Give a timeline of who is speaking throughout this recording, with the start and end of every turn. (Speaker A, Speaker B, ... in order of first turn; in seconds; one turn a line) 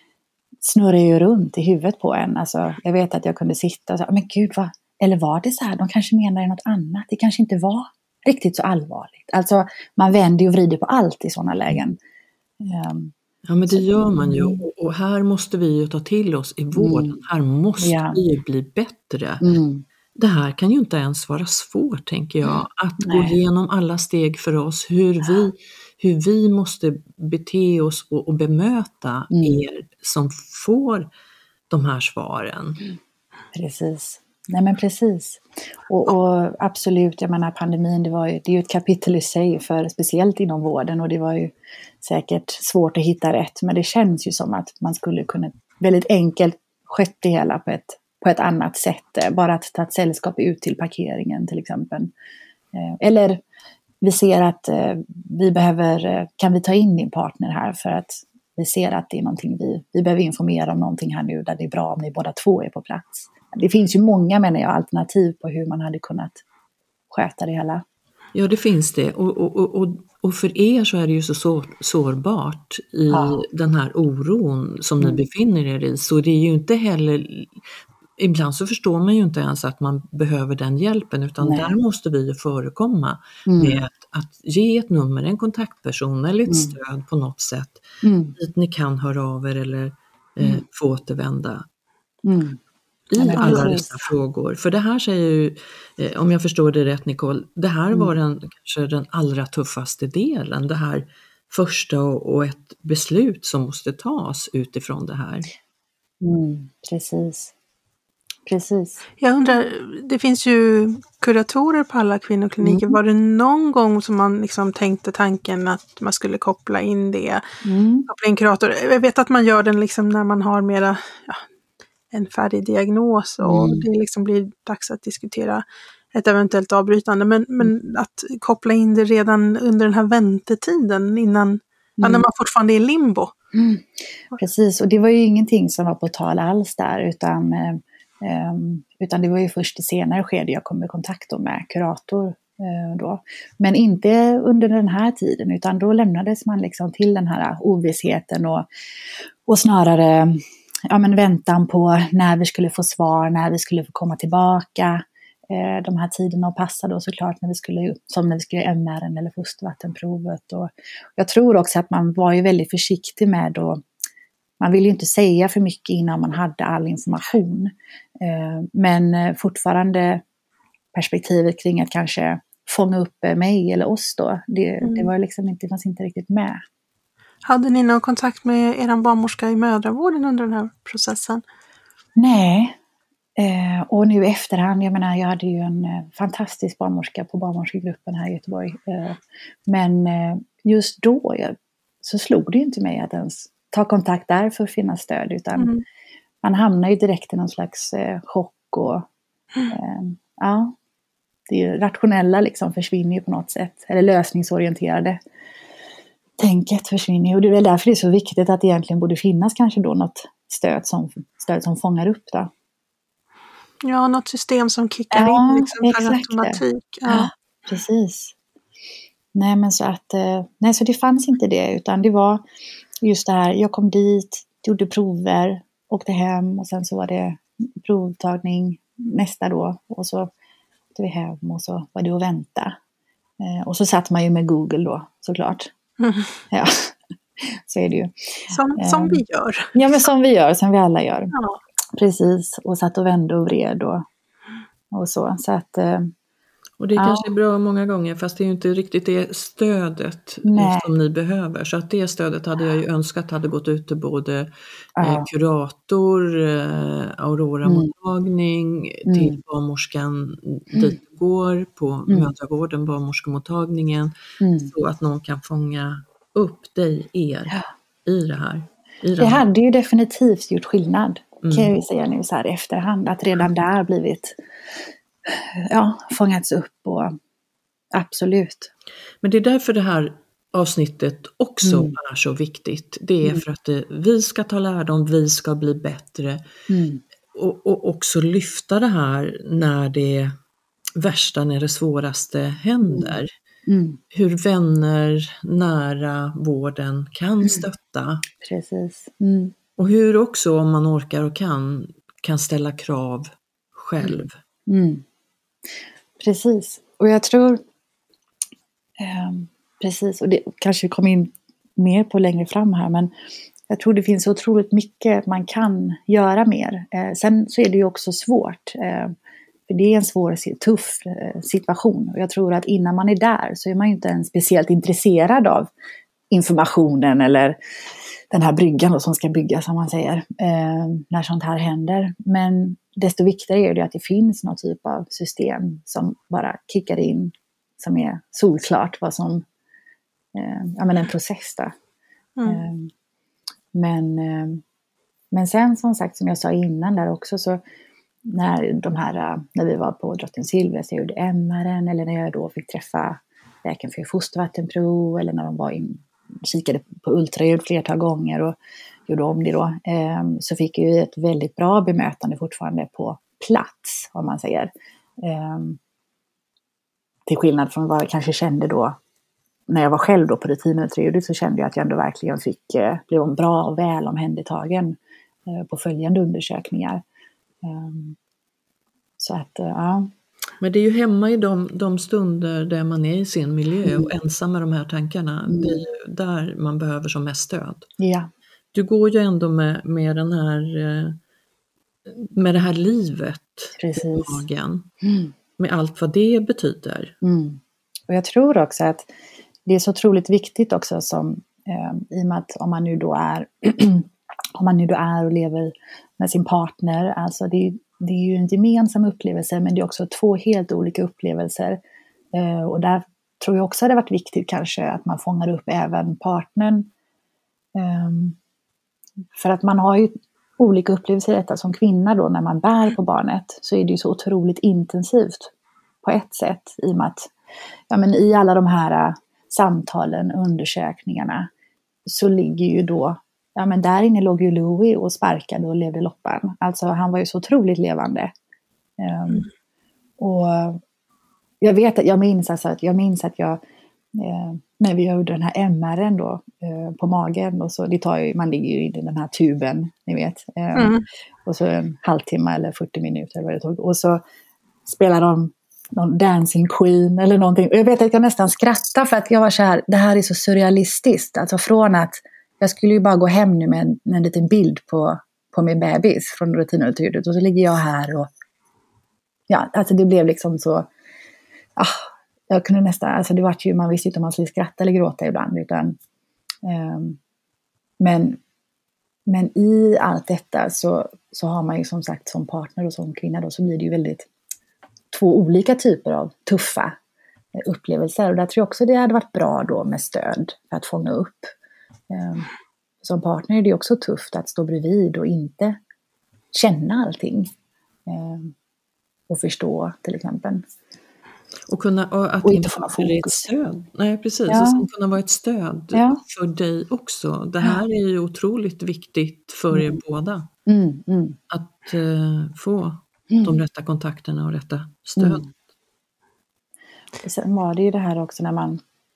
Speaker A: 0.6-12.0
Speaker A: 12.6-13.1
Speaker B: 13.5-19.5
Speaker A: 13.7-14.6
Speaker A: 16.8-17.2
Speaker A: 17.8-18.2
Speaker A: 19.4-19.9
Speaker B: 20.2-31.1
Speaker A: 22.5-23.4
Speaker A: 29.3-29.6
Speaker B: 31.7-32.8
Speaker A: 33.5-52.1
Speaker A: 52.7-53.4
Speaker A: 54.0-66.4
Speaker A: 67.1-67.8
Speaker B: 68.3-77.6
Speaker A: 73.1-73.4
Speaker B: 78.2-87.8
Speaker A: 81.4-81.7
Speaker A: 83.5-83.8
Speaker A: 86.5-86.8
Speaker A: 88.0-88.4
Speaker B: 88.4-91.7
Speaker A: 92.2-92.6
Speaker B: 93.1-105.5
Speaker A: 93.2-94.0
Speaker A: 106.2-107.5
Speaker A: 108.5-109.0
Speaker C: 109.2-117.4
Speaker A: 112.6-113.0
Speaker A: 117.6-118.1
Speaker C: 118.1-121.4
Speaker C: 122.1-133.3
Speaker A: 123.4-123.9
Speaker A: 132.0-132.2
Speaker A: 133.5-148.7
Speaker A: 149.5-163.8
Speaker A: 164.6-170.2
Speaker A: 170.9-176.6
Speaker C: 174.8-175.1
Speaker C: 177.4-181.4
Speaker A: 182.2-182.8
Speaker A: 183.4-195.7
Speaker C: 195.6-195.8
Speaker A: 196.4-199.1
Speaker A: 199.7-200.8
Speaker A: 201.5-205.2
Speaker A: 206.4-212.5
Speaker C: 213.8-217.3
Speaker A: 215.1-218.3
Speaker A: 219.3-222.4
Speaker A: 223.0-230.3
Speaker A: 230.9-232.8
Speaker A: 233.4-235.7
Speaker C: 236.0-236.3
Speaker A: 236.5-239.2
Speaker C: 238.5-239.7
Speaker A: 239.7-241.3
Speaker C: 241.3-241.6
Speaker A: 241.9-244.1
Speaker A: 244.9-246.1
Speaker B: 246.8-264.1
Speaker A: 247.0-247.3
Speaker A: 250.4-250.9
Speaker A: 255.0-255.3
Speaker A: 257.6-257.9
Speaker A: 259.1-259.4
Speaker A: 262.1-262.3
Speaker A: 264.4-264.7
Speaker B: 264.7-269.4
Speaker A: 269.2-274.4
Speaker B: 271.4-271.7
Speaker A: 275.3-277.1
Speaker A: 277.9-278.7
Speaker B: 279.2-286.4
Speaker A: 281.6-282.0
Speaker A: 286.7-287.0
Speaker B: 287.3-290.4
Speaker B: 291.0-293.3
Speaker A: 292.9-294.0
Speaker B: 294.1-298.2
Speaker A: 298.4-299.5
Speaker B: 299.8-304.4
Speaker A: 304.0-305.0
Speaker A: 306.2-307.6
Speaker A: 309.0-313.1
Speaker A: 313.7-319.1
Speaker A: 319.7-325.7
Speaker A: 326.3-327.6
Speaker A: 328.3-339.4
Speaker A: 340.3-341.7
Speaker C: 342.4-342.6
Speaker A: 342.4-342.9
Speaker A: 343.7-344.6
Speaker A: 345.3-347.6
Speaker A: 348.2-358.6
Speaker A: 359.1-365.8
Speaker A: 367.3-369.0
Speaker A: 369.7-375.0
Speaker A: 375.5-377.0
Speaker A: 377.6-378.2
Speaker A: 379.2-380.1
Speaker B: 380.6-387.9
Speaker A: 383.8-384.1
Speaker A: 385.5-385.9
Speaker A: 388.0-388.3
Speaker B: 388.7-391.2
Speaker B: 392.1-394.9
Speaker A: 393.8-394.4
Speaker A: 395.0-395.3
Speaker B: 395.6-397.1
Speaker A: 397.2-399.1
Speaker A: 399.7-411.8
Speaker A: 412.3-416.9
Speaker A: 417.8-418.4
Speaker A: 419.3-425.5
Speaker A: 426.0-427.3
Speaker A: 427.9-431.5
Speaker A: 432.1-438.3
Speaker A: 439.0-439.5
Speaker A: 440.2-440.8
Speaker A: 441.6-443.6
Speaker A: 444.1-450.9
Speaker C: 450.8-451.1
Speaker A: 451.5-454.2
Speaker A: 454.9-468.3
Speaker A: 469.5-470.9
Speaker A: 471.8-476.0
Speaker A: 476.6-477.2
Speaker A: 478.0-478.4
Speaker A: 479.3-484.3
Speaker A: 485.1-487.0
Speaker A: 487.5-491.5
Speaker A: 492.1-492.5
Speaker A: 493.0-495.8
Speaker A: 496.5-497.5
Speaker A: 498.1-498.5
Speaker A: 499.3-500.7
Speaker B: 501.7-510.5
Speaker A: 502.4-503.5
Speaker A: 504.5-504.9
Speaker A: 505.9-506.2
Speaker A: 509.7-510.0
Speaker A: 510.7-511.4
Speaker B: 511.5-515.5
Speaker A: 515.2-515.5
Speaker A: 517.2-518.8